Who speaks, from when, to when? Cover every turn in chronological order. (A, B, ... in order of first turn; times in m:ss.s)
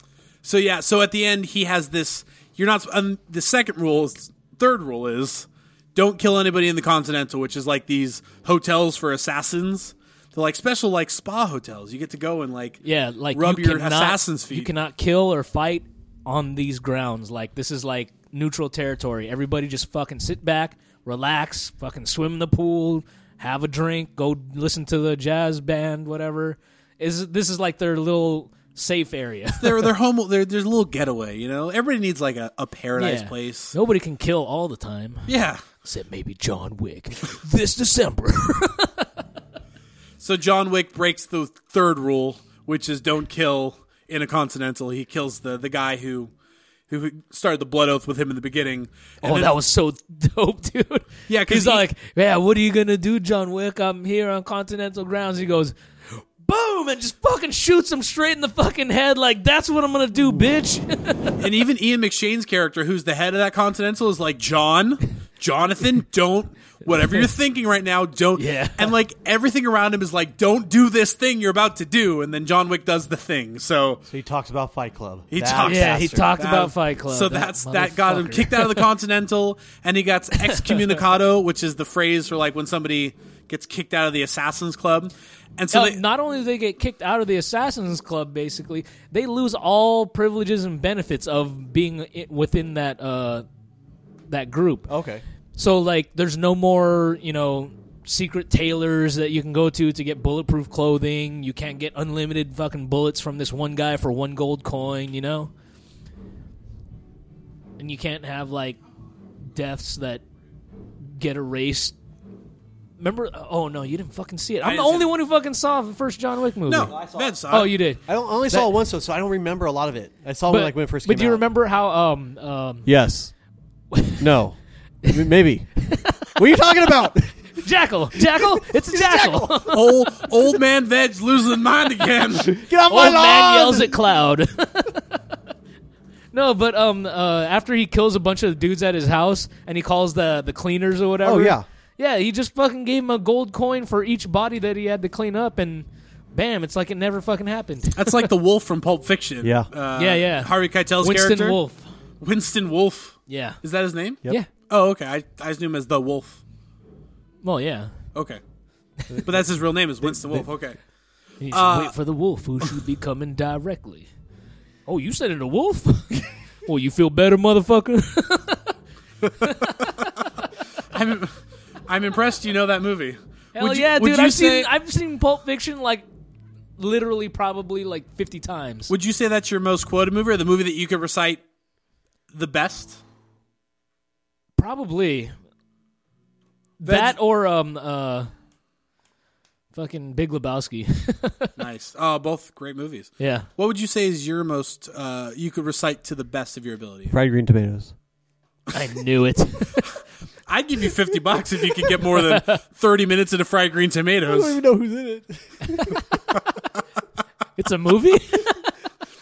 0:00.4-0:14.7 A
0:12.8-0:29.9 B
0:29.6-0:33.7 A
0:33.0-0:35.3 B
0:35.3-0:35.6 A
0:35.8-0:39.1 B
0:40.2-0:46.3 A
0:46.9-0:49.5 A
0:49.2-1:01.4 B
0:51.3-0:51.8 A
1:01.4-1:14.0 A
1:06.9-1:07.3 B
1:08.4-1:08.9 B
1:14.1-1:16.3 C
1:15.3-1:26.0 A
1:15.6-1:18.9 B
1:20.4-1:21.0 B
1:25.7-1:33.4 B
1:34.3-1:34.9 B
1:34.9-1:35.2 C
1:35.6-1:45.5 B
1:47.8-1:48.8 B
1:49.5-1:50.2 B
1:51.0-1:52.0 B
1:53.0-1:58.7 B
1:54.6-1:55.1 A
1:56.7-1:57.7 A
1:57.0-1:57.3 C
1:58.1-2:01.4 C
2:00.5-2:02.9 B
2:02.8-2:03.3 C
2:03.9-2:04.3 B
2:04.2-2:09.8 C
2:05.9-2:06.4 B
2:07.6-2:09.9 B
2:09.7-2:12.6 A
2:12.4-2:14.0 C
2:12.9-2:15.0 B
2:16.3-2:28.3 B
2:21.2-2:21.6 C
2:28.0-2:31.6 A
2:29.4-2:29.7 C
2:30.0-2:31.9 B
2:32.2-2:36.4 A
2:33.3-2:33.6 B
2:37.4-2:37.9 B
2:38.1-2:38.4 A
2:39.2-2:40.8 A
2:40.0-2:40.5 C
2:41.4-2:44.1 B
2:41.5-2:41.9 A
2:44.9-2:48.8 B
2:49.4-2:50.2 B
2:50.9-2:51.4 A
2:51.9-2:54.7 A
2:53.6-2:56.0 B
2:56.8-2:58.9 B
2:58.9-3:01.4 A
3:02.3-3:03.0 A
3:04.6-3:05.4 B
3:06.8-3:08.3 B
3:06.9-3:07.2 A
3:09.7-3:11.5 B
3:11.6-3:17.1 A
3:13.2-3:13.5 B
3:17.1-3:17.9 C
3:18.7-3:19.9 B
3:20.5-3:24.6 A
3:22.1-3:22.6 B
3:24.3-3:26.0 C
3:27.6-3:28.7 B